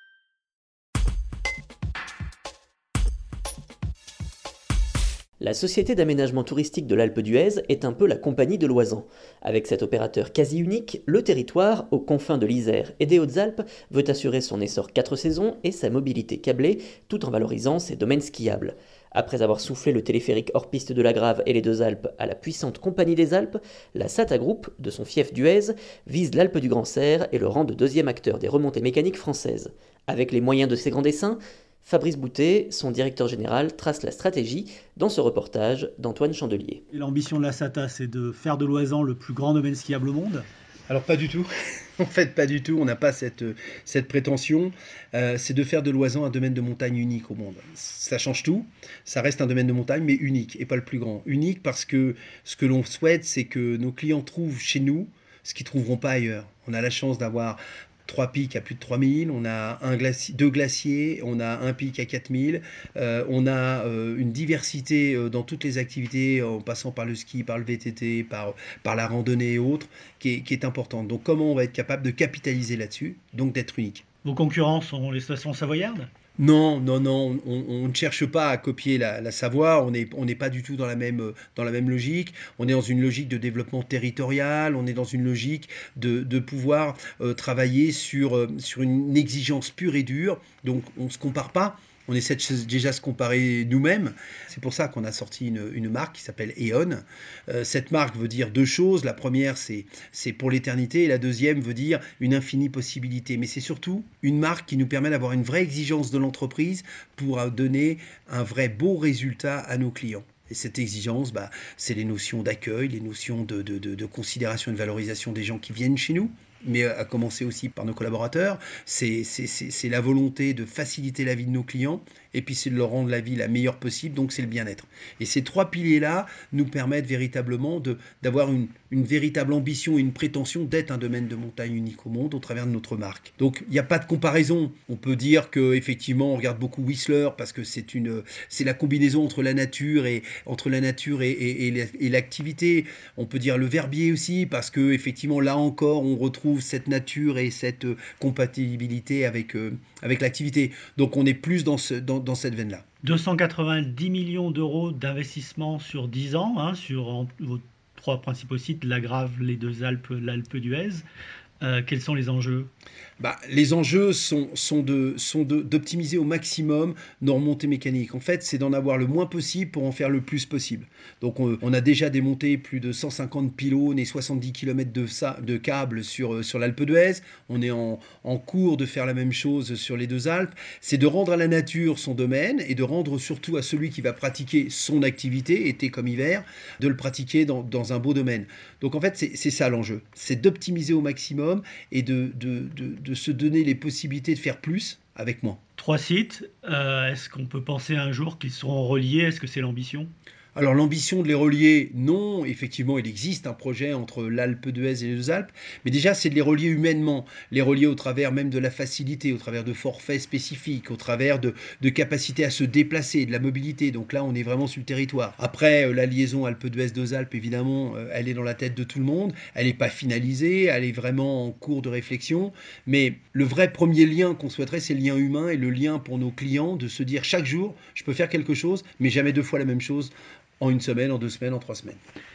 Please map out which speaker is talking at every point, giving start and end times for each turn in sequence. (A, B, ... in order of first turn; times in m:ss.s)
0:05.4-0:36.8 A
0:36.9-0:40.5 B
0:40.9-0:41.5 C
0:42.0-1:14.0 C
1:14.2-1:16.1 B
1:16.4-2:32.8 C
2:33.0-2:41.0 B
2:41.6-2:42.7 B
2:43.2-3:15.6 C
3:15.8-3:20.1 B
3:20.5-3:52.0 C